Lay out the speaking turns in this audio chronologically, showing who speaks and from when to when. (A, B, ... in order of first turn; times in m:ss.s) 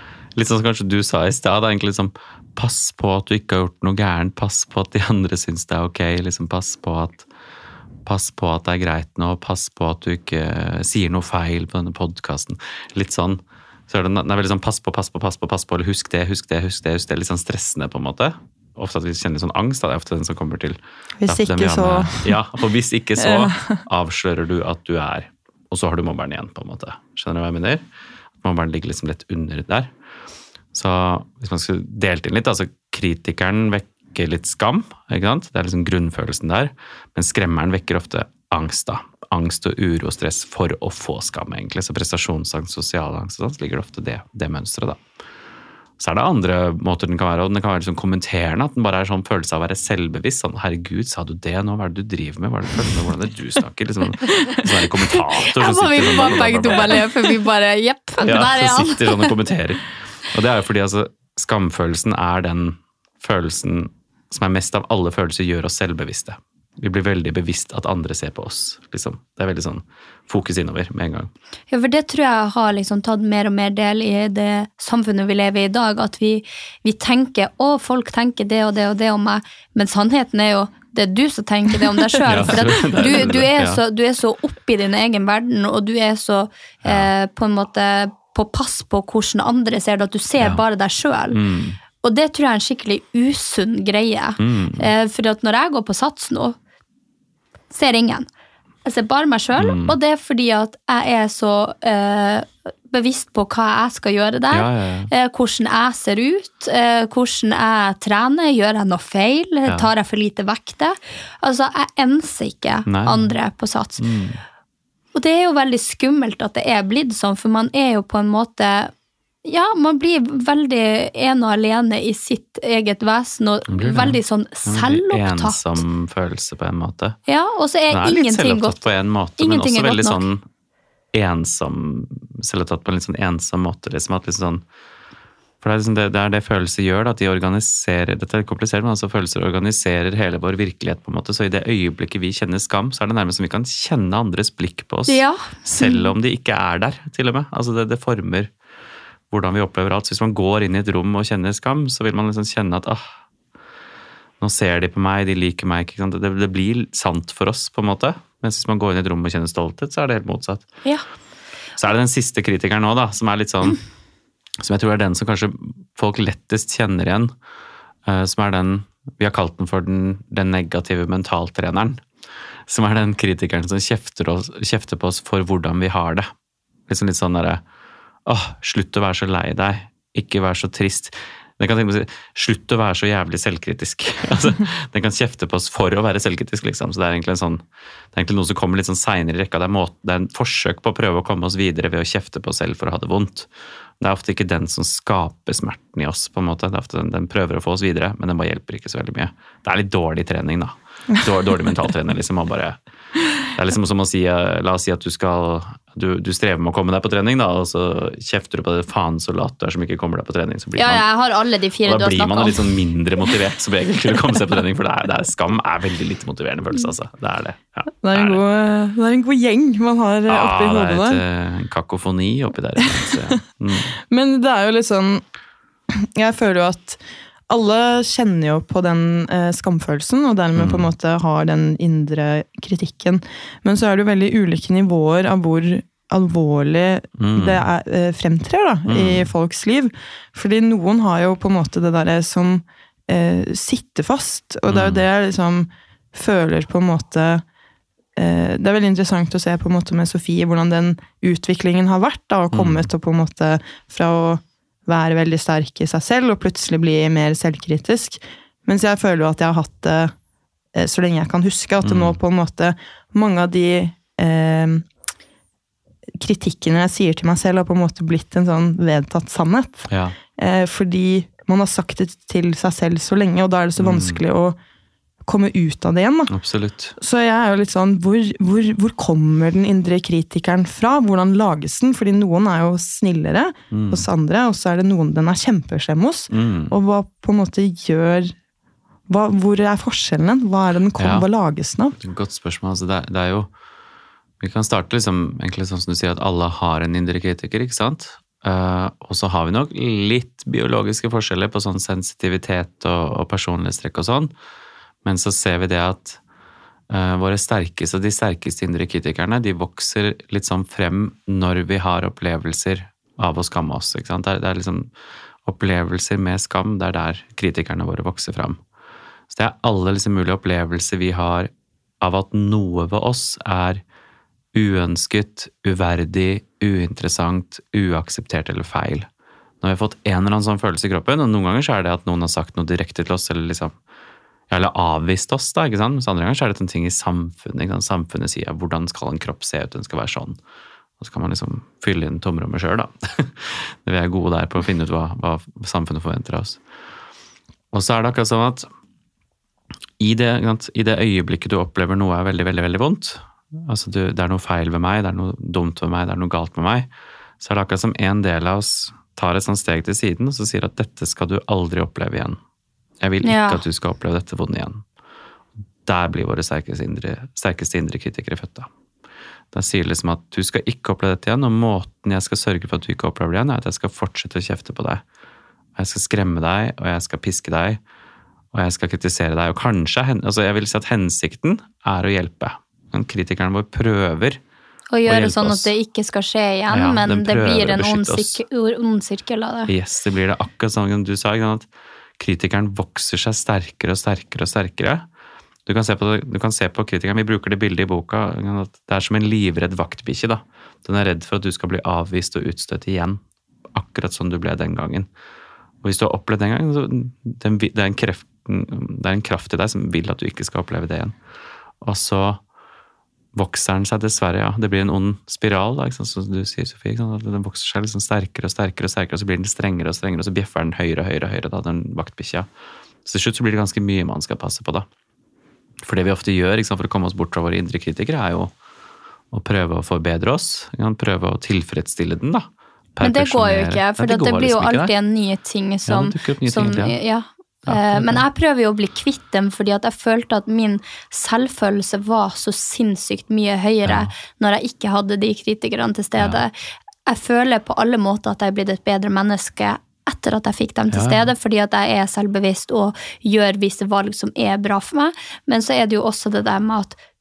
0:00.4-0:07.3 A
0:08.1-0:27.8 A
0:21.2-0:22.4 B
0:23.2-0:23.8 B
0:28.4-0:29.9 A
0:30.7-0:45.0 A
0:46.0-0:57.0 A
0:55.2-0:59.3 C
0:58.2-1:11.3 A
1:11.7-1:31.4 C
1:22.2-1:23.8 A
1:26.8-1:27.1 A
1:31.3-1:31.8 A
1:32.0-1:36.6 C
1:34.4-1:34.9 A
1:37.7-1:38.3 C
1:38.8-1:54.0 C
1:39.6-1:40.0 A
1:44.5-1:45.1 A
1:52.9-1:53.4 A
1:54.0-1:54.4 A
1:55.2-1:58.9 C
1:59.4-2:05.8 C
2:03.7-2:07.2 A
2:07.3-2:08.8 C
2:07.9-2:10.4 A
2:09.4-2:10.2 C
2:11.1-2:14.6 A
2:15.6-2:28.5 A
2:25.1-2:26.1 C
2:29.3-2:33.0 A
2:34.4-2:40.7 A
2:41.8-2:43.8 A
2:44.6-2:47.3 A
2:48.1-2:52.0 A
2:52.7-2:56.3 A
2:56.9-2:57.6 A
2:58.3-3:07.6 A
3:08.1-3:13.5 A
3:14.0-3:22.8 A
3:23.5-3:31.1 A
3:30.8-3:32.7 C
3:31.8-3:38.4 A
3:38.0-3:41.2 B
3:40.3-3:43.9 A
3:44.0-3:45.2 B
3:45.9-4:07.4 B
3:50.6-3:50.9 A
3:57.2-3:57.6 A
3:58.9-3:59.3 A
4:04.7-4:05.0 A
4:08.2-4:20.1 B
4:12.5-4:12.9 A
4:20.7-4:24.9 B
4:21.8-4:22.2 A
4:26.2-4:29.9 B
4:29.9-4:30.2 A
4:30.4-4:34.6 B
4:33.8-4:34.2 A
4:35.3-4:36.3 B
4:36.3-4:37.0 A
4:37.0-4:48.4 B
4:43.7-4:44.1 A
4:46.3-4:46.8 A
4:49.1-4:52.0 B
4:51.0-4:51.3 A
4:52.0-4:53.5 A
4:54.4-5:04.3 A
5:05.0-5:06.2 A
5:06.9-5:14.9 A
5:15.4-5:18.6 A
5:19.3-5:21.5 A
5:22.0-5:23.8 A
5:24.5-5:29.1 A
5:29.6-5:33.7 A
5:34.5-5:40.4 A
5:41.0-5:46.6 A
5:47.7-5:48.7 A
5:50.0-5:56.9 A
5:57.4-6:02.4 A
6:03.0-6:04.8 A
6:03.2-6:03.6 C
6:05.9-6:08.7 A
6:09.5-6:15.0 A
6:15.8-6:17.8 A
6:18.5-6:24.4 A
6:24.9-6:29.7 C
6:25.1-6:25.7 A
6:26.7-6:28.4 A
6:29.7-6:31.7 A
6:32.2-6:35.0 A
6:35.7-6:43.2 A
6:43.7-6:45.1 A
6:45.8-6:51.1 A
6:51.8-6:52.4 A
6:53.4-7:02.5 A
7:03.0-7:04.9 A
7:05.8-7:08.5 A
7:09.3-7:14.9 A
7:13.0-7:26.5 C
7:15.9-7:17.0 A
7:17.6-7:18.2 A
7:23.9-7:24.1 A
7:27.1-7:37.0 C
7:30.9-7:31.3 A